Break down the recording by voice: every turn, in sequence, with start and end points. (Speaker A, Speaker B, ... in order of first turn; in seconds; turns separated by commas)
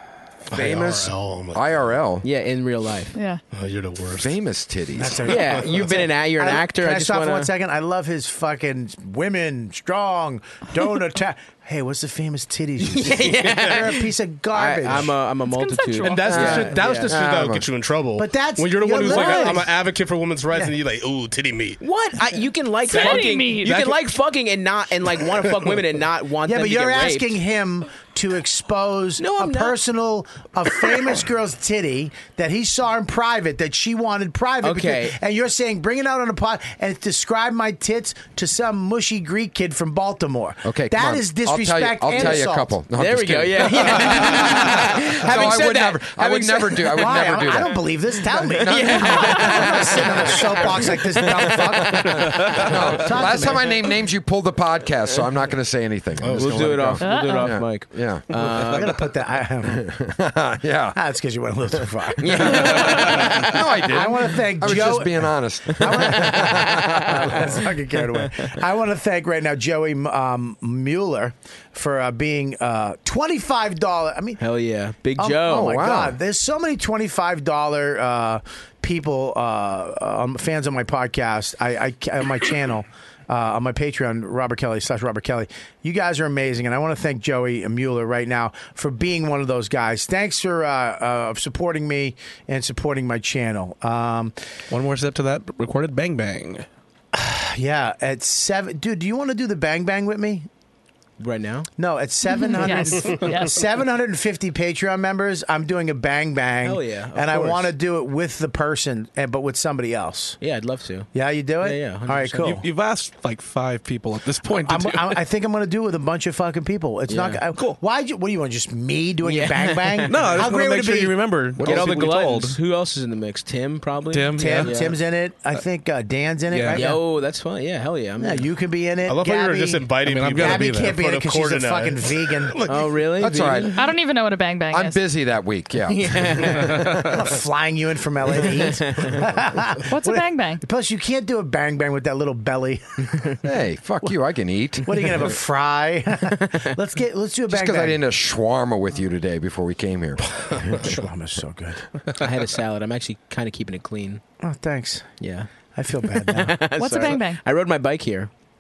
Speaker A: 0.5-1.9, Speaker B: 0.5-2.2, Speaker C: 2.2-3.2, Speaker D: 3.1-3.4, Speaker A: 3.5-4.3, Speaker B: 4.2-5.3, Speaker E: 5.0-15.1, Speaker C: 5.3-7.5, Speaker A: 5.4-6.0, Speaker C: 12.8-17.1, Speaker A: 13.2-13.8, Speaker D: 15.4-16.6, Speaker A: 16.1-21.8, Speaker B: 16.3-17.7, Speaker E: 18.2-19.8, Speaker C: 19.0-19.6, Speaker C: 21.8-27.4, Speaker D: 22.9-23.8, Speaker A: 22.9-24.0, Speaker E: 26.4-42.8, Speaker C: 29.2-29.8, Speaker C: 34.6-35.2, Speaker B: 40.6-50.0, Speaker C: 42.9-47.2, Speaker E: 43.9-44.7, Speaker E: 45.3-45.9, Speaker E: 46.5-53.9, Speaker C: 48.6-51.6, Speaker B: 51.5-58.3, Speaker A: 56.2-56.9, Speaker C: 56.3-58.9, Speaker D: 57.0-57.6, Speaker E: 58.3-59.9, Speaker B: 59.7-61.0, Speaker E: 61.0-74.4, Speaker C: 62.2-63.6, Speaker B: 62.4-67.5, Speaker C: 65.7-67.2, Speaker C: 74.4-75.9, Speaker E: 75.2-94.3, Speaker B: 75.5-76.2, Speaker F: 94.7-96.7, Speaker E: 97.1-100.5, Speaker C: 101.2-101.7, Speaker E: 101.8-110.4, Speaker D: 102.3-103.6, Speaker C: 106.6-107.7, Speaker C: 110.4-112.6, Speaker E: 111.1-112.7, Speaker F: 112.4-115.2, Speaker E: 114.6-121.2, Speaker C: 117.1-117.4, Speaker F: 117.5-117.8, Speaker C: 119.2-120.4, Speaker F: 120.1-122.6, Speaker C: 121.6-125.0, Speaker F: 124.1-124.9, Speaker E: 124.4-127.0, Speaker F: 126.5-127.0, Speaker C: 126.7-128.5, Speaker E: 128.2-132.6, Speaker A: 129.1-133.1, Speaker F: 130.0-131.0, Speaker C: 132.7-133.8, Speaker B: 133.2-133.8, Speaker D: 133.7-135.0, Speaker B: 134.7-137.0, Speaker C: 135.9-136.9, Speaker E: 137.0-143.4, Speaker C: 138.7-139.2, Speaker D: 139.9-140.6, Speaker B: 143.4-145.3, Speaker E: 144.8-148.0, Speaker B: 147.5-150.8, Speaker E: 150.3-151.8, Speaker C: 152.2-154.2, Speaker E: 154.4-155.1, Speaker C: 155.2-155.5, Speaker E: 155.8-156.6, Speaker C: 156.1-158.3, Speaker D: 156.8-157.4